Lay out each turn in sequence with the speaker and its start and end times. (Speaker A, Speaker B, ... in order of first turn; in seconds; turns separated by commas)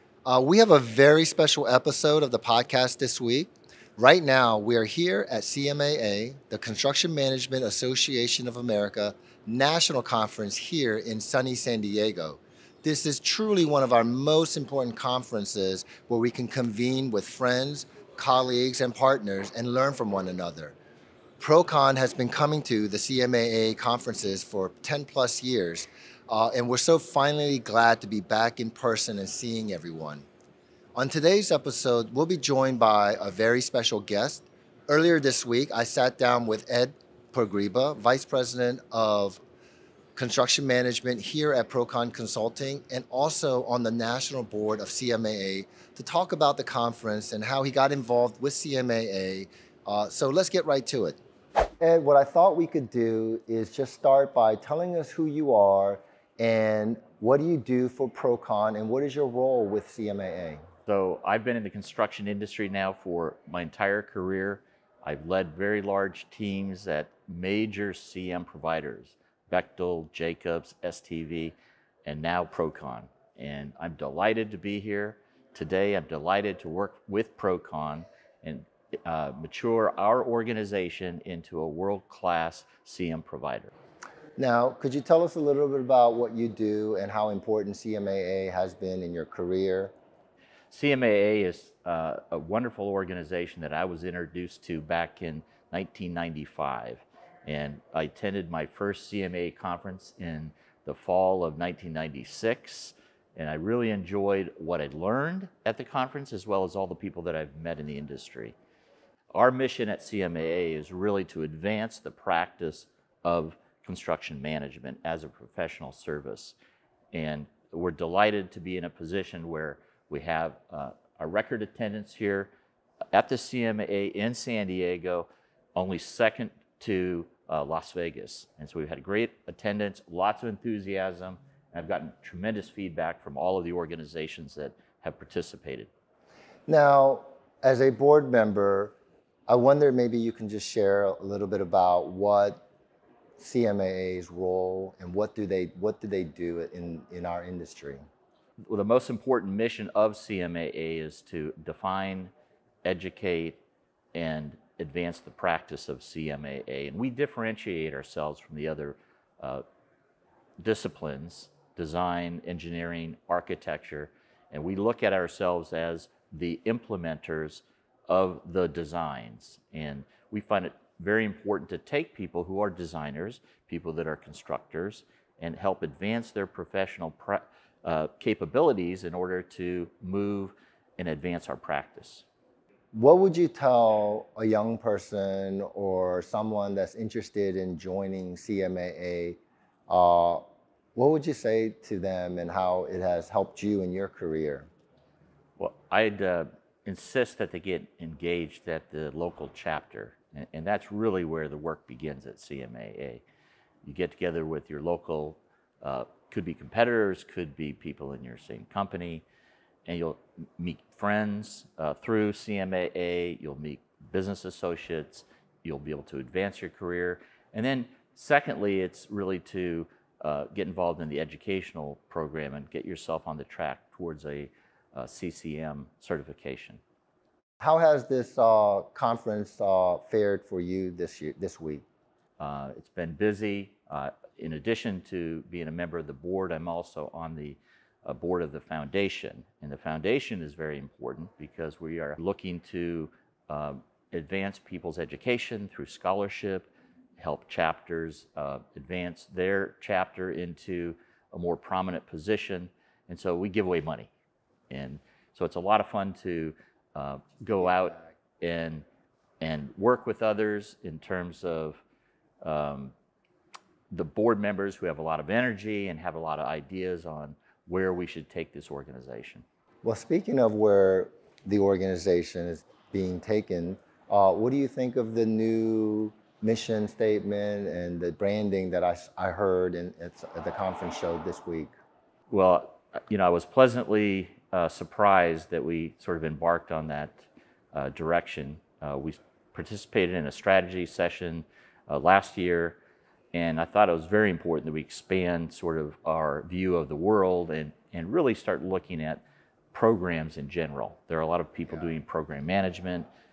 Speaker A: 0.3-20.8, Speaker A: 21.4-30.2, Speaker A: 30.9-39.4, Speaker A: 40.2-51.2, Speaker A: 51.8-60.6, Speaker B: 60.9-71.5, Speaker B: 72.1-83.7, Speaker A: 84.4-89.9, Speaker B: 90.7-108.5, Speaker B: 109.3-116.5, Speaker B: 117.1-122.5, Speaker B: 123.1-135.9, Speaker A: 136.7-138.9, Speaker A: 139.5-142.6, Speaker A: 143.4-148.0, Speaker B: 148.7-152.3, Speaker B: 152.8-153.6, Speaker B: 154.2-159.6, Speaker B: 160.6-182.2, Speaker A: 182.9-189.4, Speaker A: 189.9-190.4, Speaker A: 191.0-194.7, Speaker B: 195.6-203.2, Speaker B: 203.8-209.2, Speaker B: 209.9-226.8, Speaker A: 227.6-231.8, Speaker B: 232.4-254.1, Speaker B: 254.7-258.9, Speaker B: 259.4-261.8, Speaker B: 262.4-262.9, Speaker B: 263.9-269.4, Speaker A: 269.8-281.7, Speaker B: 282.3-292.8, Speaker B: 293.3-299.2, Speaker B: 299.7-303.1